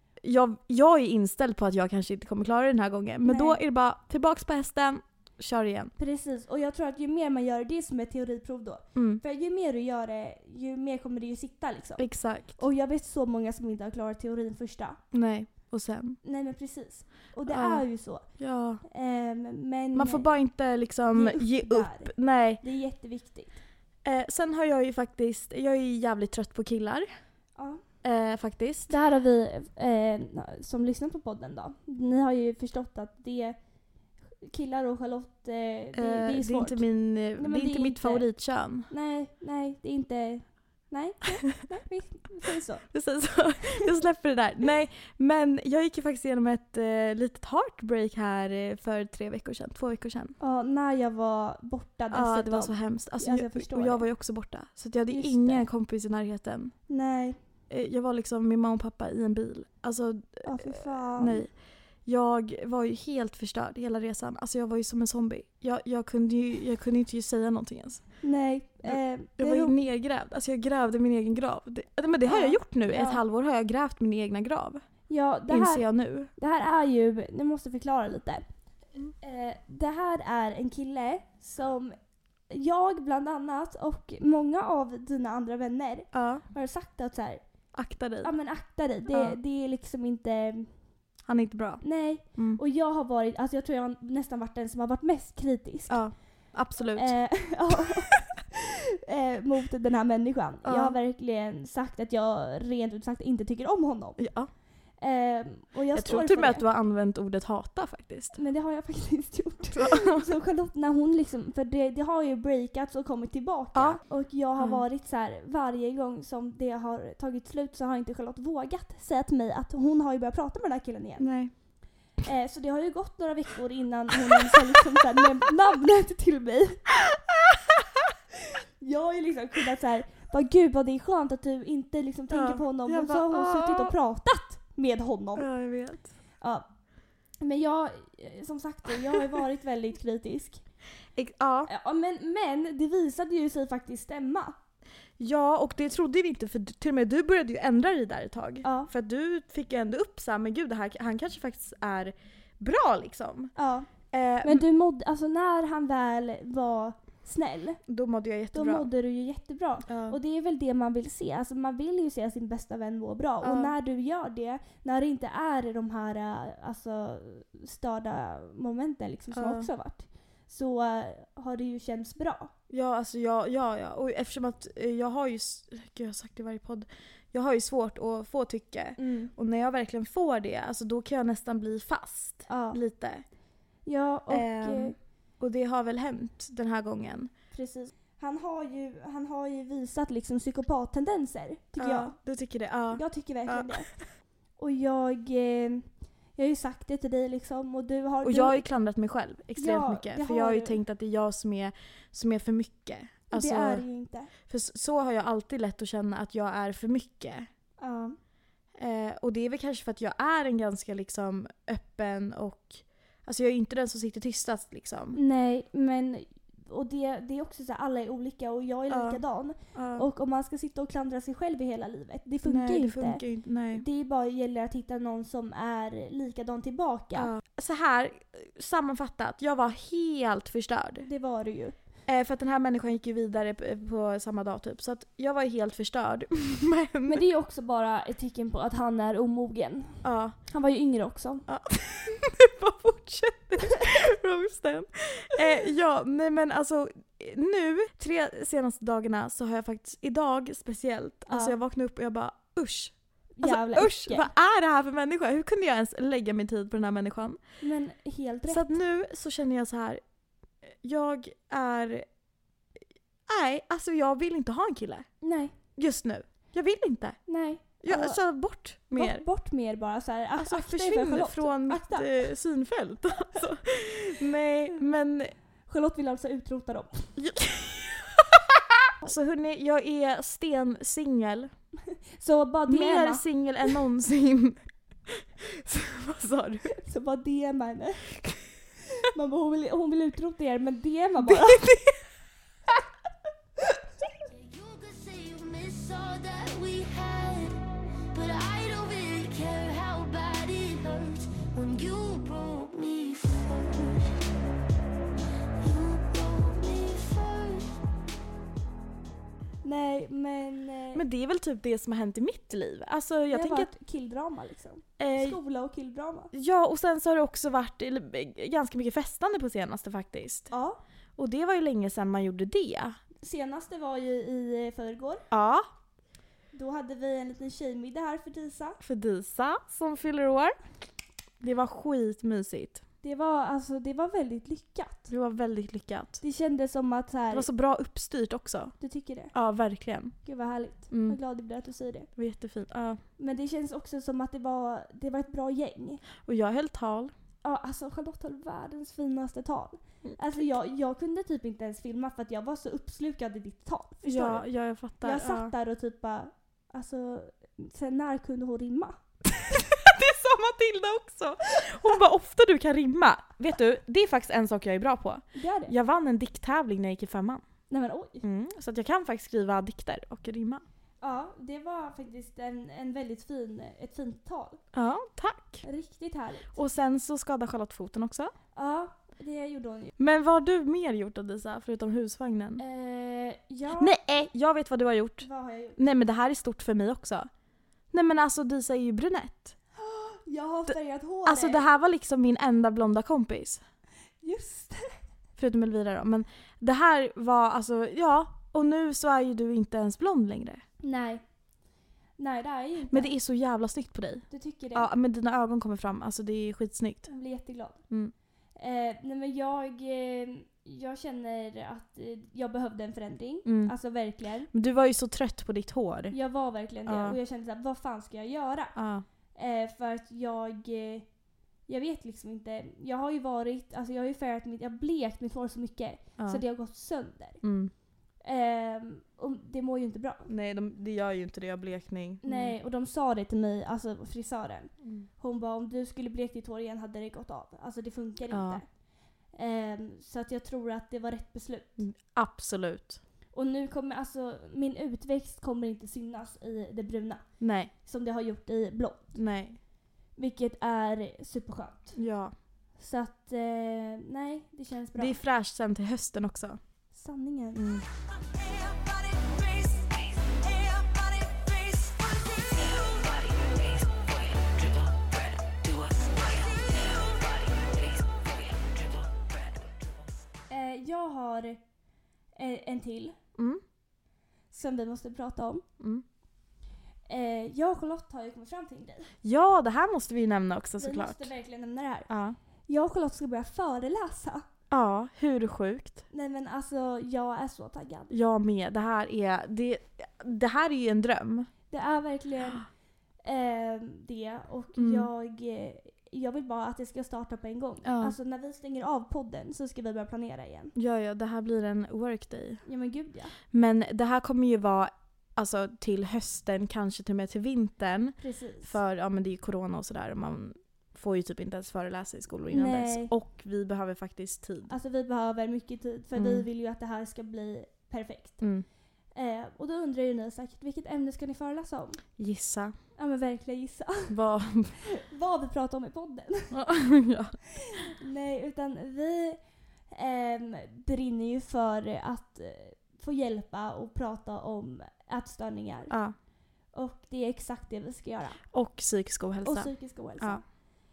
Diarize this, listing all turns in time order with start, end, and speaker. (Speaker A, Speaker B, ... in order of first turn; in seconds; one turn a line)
Speaker A: 0.2-5.9
Speaker B: 3.2-3.6
Speaker B: 6.0-15.0
Speaker A: 8.9-9.2
Speaker A: 12.0-12.6
Speaker A: 15.1-16.2
Speaker B: 16.2-18.3
Speaker A: 17.5-17.9
Speaker A: 18.4-18.8
Speaker B: 18.8-20.3
Speaker A: 19.9-22.6
Speaker B: 21.1-23.6
Speaker A: 24.0-27.1
Speaker B: 27.6-27.8
Speaker A: 28.0-28.9
Speaker B: 28.9-33.6
Speaker B: 34.4-38.3
Speaker A: 35.9-38.9
Speaker B: 38.9-42.9
Speaker A: 42.9-50.4
Speaker B: 50.4-54.0
Speaker A: 52.1-56.8
Speaker B: 55.1-55.7
Speaker B: 56.9-57.4
Speaker A: 57.7-68.2
Speaker B: 60.4-61.5
Speaker B: 68.2-69.8
Speaker A: 68.8-74.9
Speaker B: 72.2-73.2
Speaker B: 75.1-78.5
Speaker A: 75.5-76.3
Speaker B: 79.2-82.0
Speaker B: 82.5-87.4
Speaker A: 86.1-86.4
Speaker A: 87.7-88.3
Speaker B: 88.2-90.7
Speaker A: 89.1-89.4
Speaker A: 91.3-92.6
Speaker B: 91.8-96.1
Speaker A: 95.9-97.4
Speaker B: 97.0-104.2
Speaker A: 100.6-101.0
Speaker A: 104.2-104.5
Speaker B: 105.0-106.6
Speaker A: 105.9-108.4
Speaker B: 108.4-121.3
Speaker A: 109.7-110.3
Speaker A: 113.7-114.0
Speaker A: 114.6-114.8
Speaker A: 121.2-121.5
Speaker B: 122.2-127.0
Speaker B: 128.8-135.5
Speaker A: 132.3-134.0
Speaker A: 135.4-136.1
Speaker B: 137.4-140.6
Speaker A: 141.2-141.7
Speaker B: 141.7-144.6
Speaker A: 145.2-153.5
Speaker B: 148.6-148.9
Speaker B: 153.6-153.9
Speaker A: 154.1-154.6
Speaker B: 154.4-157.8
Speaker A: 157.9-158.9
Speaker B: 158.5-172.5
Speaker A: 159.9-160.2
Speaker A: 163.4-163.7
Speaker A: 169.3-169.7
Speaker A: 172.7-183.2
Speaker B: 179.0-179.3
Speaker B: 182.5-182.8
Speaker B: 183.8-184.9
Speaker A: 184.3-187.3
Speaker B: 187.5-192.2
Speaker A: 191.8-193.9
Speaker B: 192.9-193.9
Speaker B: 194.6-198.6
Speaker A: 198.2-203.9
Speaker B: 199.6-200.8
Speaker B: 203.3-204.3
Speaker A: 204.4-207.5
Speaker B: 207.8-208.2
Speaker A: 208.8-215.2
Speaker B: 215.1-227.3
Speaker A: 218.9-219.2
Speaker A: 219.7-220.1
Speaker A: 222.4-223.8
Speaker A: 227.2-231.1
Speaker B: 231.0-231.8
Speaker A: 232.1-237.2
Speaker B: 237.1-241.4
Speaker A: 240.0-240.4
Speaker A: 241.5-257.4
Speaker B: 251.3-251.6
Speaker B: 253.4-254.3
Speaker B: 257.6-258.7
Speaker A: 258.5-260.0
Speaker A: 260.6-262.1
Speaker A: 263.3-265.2
Speaker B: 265.2-265.5
Speaker A: 265.8-267.2
Speaker B: 267.3-268.2
Speaker A: 267.8-269.2
Speaker B: 268.9-272.3
Speaker A: 270.4-275.3
Speaker B: 275.7-277.1
Speaker A: 277.2-281.5
Speaker B: 282.2-283.2
Speaker A: 282.7-286.7
Speaker B: 286.7-288.1
Speaker B: 289.0-291.6
Speaker A: 291.2-292.0
Speaker C: 294.2-304.2
Speaker C: 305.6-307.8
Speaker B: 309.6-311.0
Speaker A: 310.9-313.7
Speaker B: 313.3-316.3
Speaker A: 315.0-315.4
Speaker A: 316.3-320.5
Speaker B: 320.5-320.8
Speaker A: 321.2-323.0
Speaker B: 323.2-325.2
Speaker A: 325.3-325.7
Speaker B: 326.5-328.8
Speaker A: 328.8-330.6
Speaker A: 331.4-332.8
Speaker B: 333.0-335.1
Speaker A: 335.1-336.2
Speaker B: 336.2-337.5
Speaker A: 337.3-338.8
Speaker B: 338.8-339.3
Speaker A: 339.3-340.2
Speaker B: 340.2-342.1
Speaker A: 340.9-341.2
Speaker A: 342.2-343.0
Speaker B: 343.2-346.0
Speaker A: 346.2-347.1
Speaker B: 347.4-354.5
Speaker A: 354.0-355.5
Speaker B: 355.0-359.0
Speaker A: 359.7-367.4
Speaker B: 365.4-365.7
Speaker B: 367.7-368.2
Speaker A: 368.2-370.6
Speaker B: 371.0-374.6
Speaker A: 374.7-375.6
Speaker B: 375.6-376.6
Speaker A: 376.5-378.3
Speaker B: 378.6-379.9
Speaker A: 380.0-382.6
Speaker B: 382.6-384.1
Speaker A: 383.8-387.3
Speaker B: 385.2-385.8
Speaker A: 387.9-389.6
Speaker B: 389.8-391.7
Speaker A: 391.2-393.6
Speaker B: 394.2-395.0
Speaker A: 395.4-400.6
Speaker B: 400.8-401.2
Speaker B: 402.2-403.1
Speaker A: 402.9-407.1
Speaker B: 404.3-404.9
Speaker B: 407.1-407.8
Speaker B: 408.6-414.5
Speaker A: 413.4-413.8
Speaker A: 414.5-416.2
Speaker B: 416.1-418.8
Speaker A: 416.9-417.2
Speaker A: 418.8-419.1
Speaker B: 419.4-421.1
Speaker B: 421.7-427.4
Speaker A: 427.4-427.7
Speaker B: 428.2-430.3
Speaker A: 430.3-432.6
Speaker B: 432.2-438.7
Speaker A: 434.8-435.1
Speaker A: 438.3-438.6
Speaker B: 439.3-441.8
Speaker A: 441.8-443.0
Speaker B: 443.3-447.3
Speaker A: 447.4-447.7
Speaker B: 447.8-449.2
Speaker A: 449.1-449.6
Speaker B: 450.2-452.0
Speaker A: 451.9-452.3
Speaker B: 452.8-455.2
Speaker A: 455.0-456.6
Speaker B: 456.9-457.7
Speaker A: 457.6-457.8
Speaker C: 458.5-469.6
Speaker B: 470.5-471.6
Speaker B: 472.4-473.2
Speaker A: 473.4-473.6
Speaker B: 474.5-475.6
Speaker B: 477.1-479.1
Speaker A: 479.2-481.3
Speaker B: 480.8-482.1
Speaker A: 482.1-482.4
Speaker B: 482.7-484.4
Speaker A: 484.7-486.0
Speaker B: 486.1-488.1
Speaker A: 488.1-491.5
Speaker B: 491.7-492.7
Speaker B: 493.2-500.7
Speaker A: 494.8-495.1
Speaker A: 497.8-498.1
Speaker A: 500.8-502.6
Speaker B: 502.6-503.4
Speaker A: 503.5-514.7
Speaker B: 508.2-508.7
Speaker B: 512.5-513.1
Speaker B: 514.7-518.4
Speaker A: 516.1-516.5
Speaker A: 518.4-518.7
Speaker B: 519.1-522.0
Speaker A: 522.2-522.7
Speaker B: 523.0-524.1
Speaker A: 524.1-524.8
Speaker B: 524.9-526.6
Speaker A: 526.5-527.4
Speaker B: 527.6-529.4
Speaker B: 529.9-536.0
Speaker B: 536.7-538.4
Speaker A: 538.5-540.4
Speaker B: 539.4-540.5